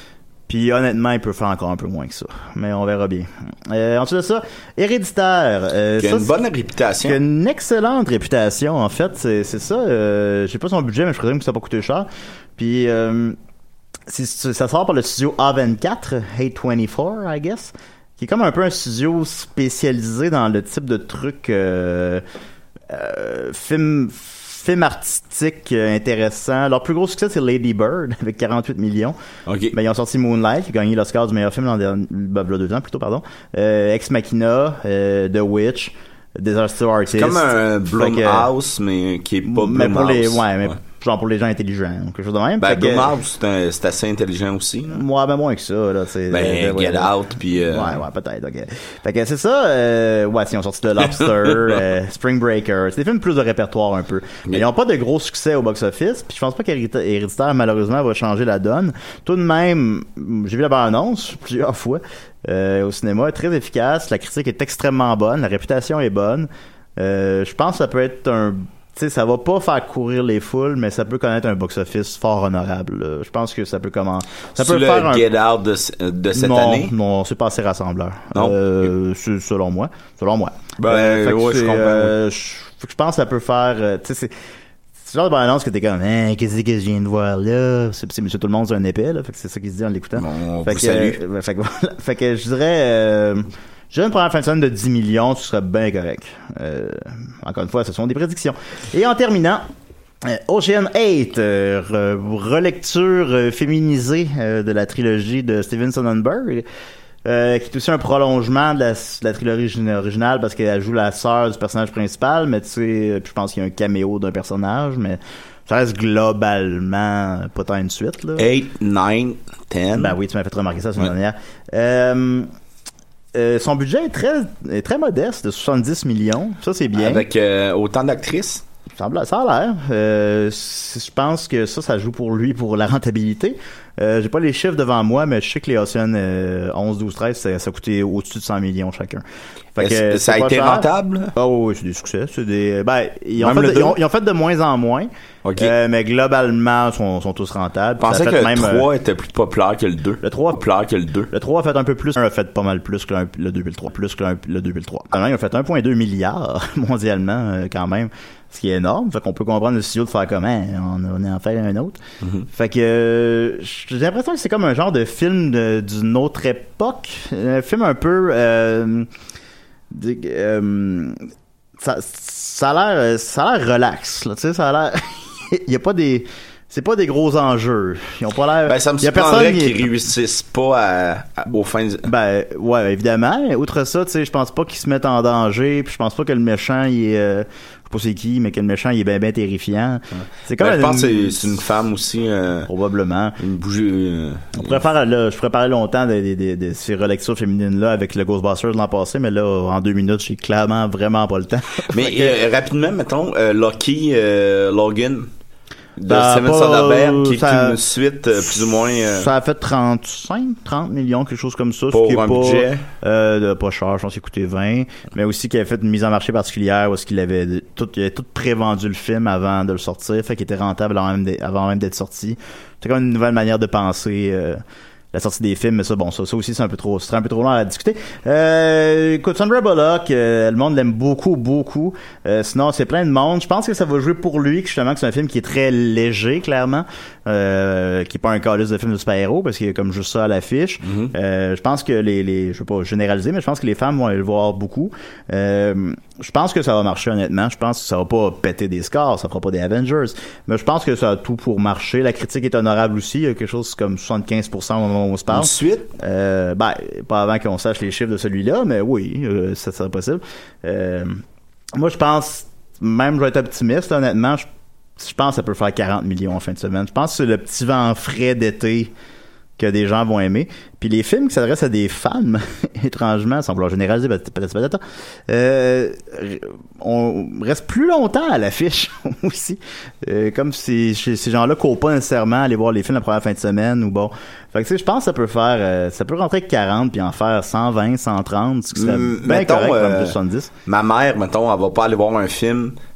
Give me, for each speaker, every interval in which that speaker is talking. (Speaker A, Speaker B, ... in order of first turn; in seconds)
Speaker A: 0.5-6.3, 7.0-13.4, 14.1-22.2, 22.9-29.1, 29.7-38.5, 39.5-43.1, 44.9-75.3, 76.3-84.3, 85.0-99.7, 100.2-106.7, 107.2-118.5, 120.0-122.5, 123.3-127.3, 129.0-139.2, 139.8-148.9, 150.2-150.6, 151.3-162.0, 162.5-169.1, 169.9-171.2, 171.8-179.9, 182.0-191.5, 192.7-193.4, 194.5-202.4, 206.1-207.8, 209.0-224.6, 225.1-261.2, 261.8-264.5, 265.0-268.9, 269.6-290.5
Speaker B: 6.0-7.2, 29.5-29.7, 37.1-40.8, 42.6-45.0, 46.3-48.0, 74.6-76.9, 80.8-82.2, 90.2-91.2, 118.4-120.2, 126.9-128.6, 139.8-141.3, 143.4-144.0, 145.4-145.7, 148.0-151.3, 162.2-162.5, 178.7-182.1, 190.2-192.7, 193.4-194.8, 201.9-205.3, 206.0-209.3, 211.9-212.9, 240.8-241.1, 255.3-255.9, 288.8-292.8